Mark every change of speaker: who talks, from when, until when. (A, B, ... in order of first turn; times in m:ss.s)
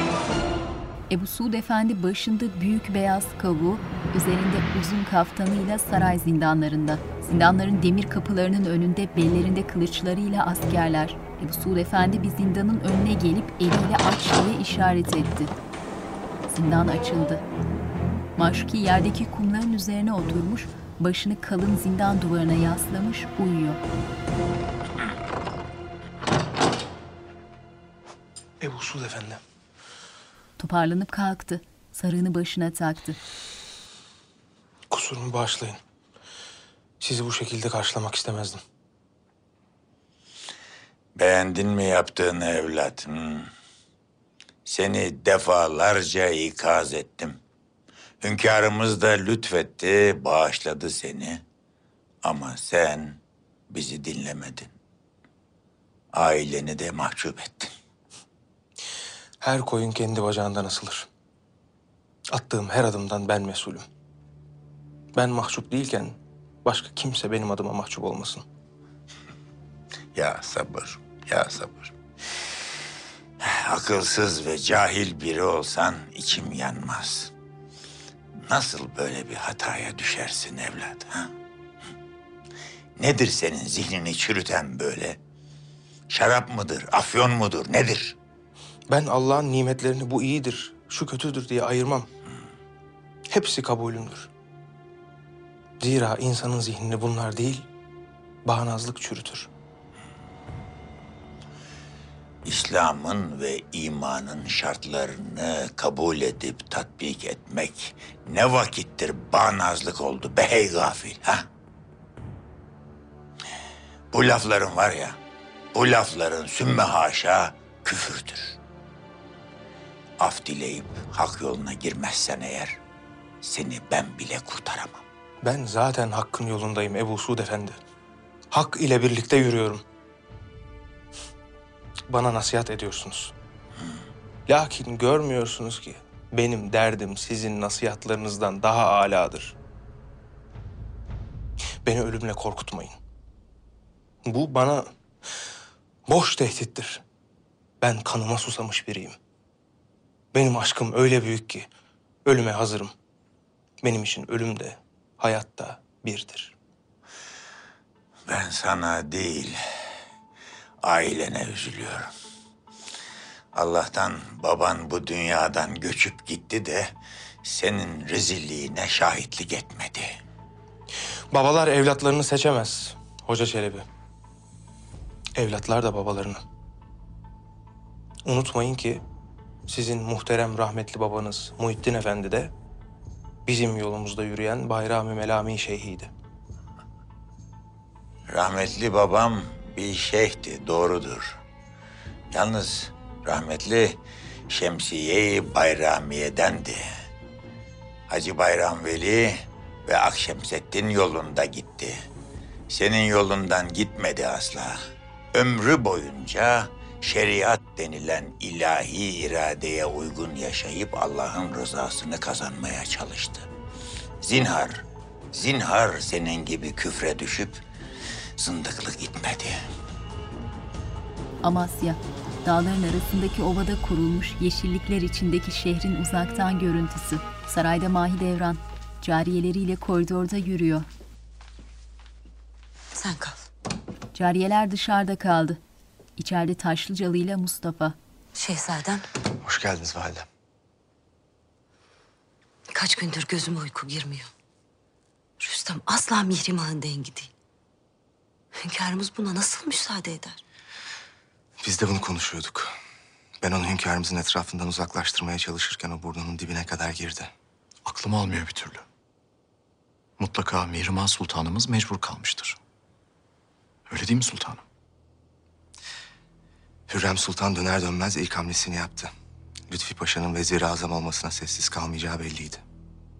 0:01.1-0:15.5 A
0:16.5-0:17.4 A
0:18.4-0:23.8 A
0:28.6-0:29.4 B
0:30.6-0:33.2 A
0:34.9-0:35.8 B
0:37.0-0:38.6 B
0:41.2-0:43.5 C
0:44.6-0:47.4 C
0:48.2-0:51.4 C
0:52.2-0:54.7 C
0:56.1-0:57.7 C
0:59.4-1:01.1 B
1:02.3-1:03.8 B
1:05.1-1:08.4 B
1:10.1-1:11.9 C
1:13.4-1:17.3 C
1:18.4-1:21.3 C
1:23.0-1:25.2 C
1:26.1-1:28.1 C
1:28.9-1:32.1 B
1:33.3-1:34.3 B
1:35.8-1:37.6 B
1:38.4-1:39.5 B
1:42.4-1:51.4 C
1:54.1-1:55.2 C
1:55.7-1:58.6 C
2:00.2-2:02.8 C
2:03.4-2:05.0 C
2:05.4-2:07.8 B
2:08.5-2:09.8 B
2:12.1-2:13.3 B
2:14.5-2:19.5 B
2:21.8-2:23.0 B
2:24.2-2:24.9 B
2:26.0-2:27.0 B
2:27.8-2:29.2 B
2:30.3-2:31.7 B
2:32.2-2:32.9 B
2:33.8-2:36.5 B
2:38.3-2:39.6 C
2:40.8-2:42.1 C
2:43.5-2:46.9 C
2:47.4-2:50.2 C
2:51.3-2:53.8 B
2:55.4-2:56.4 B
2:58.2-2:59.0 B
2:59.7-3:02.5 B
3:03.5-3:06.1 B
3:08.3-3:11.4 C
3:12.3-3:16.8 C
3:18.1-3:22.0 C
3:22.7-3:24.8 C
3:25.3-3:33.5 C
3:34.2-3:34.8 C
3:35.3-3:37.6 C
3:38.4-3:39.6 C
3:41.4-3:50.9 A
3:52.9-3:53.4 D
3:54.1-3:55.6 A
3:56.2-3:58.0 A
3:58.3-3:59.0 D
3:59.5-4:00.2 E
4:02.7-4:04.3 D
4:05.4-4:07.3 D
4:08.6-4:10.4 D
4:11.6-4:12.7 F
4:13.4-4:17.3 F
4:17.8-4:18.8 E
4:20.2-4:22.6 E
4:23.9-4:24.6 E
4:26.9-4:29.1 F
4:29.7-4:32.6 F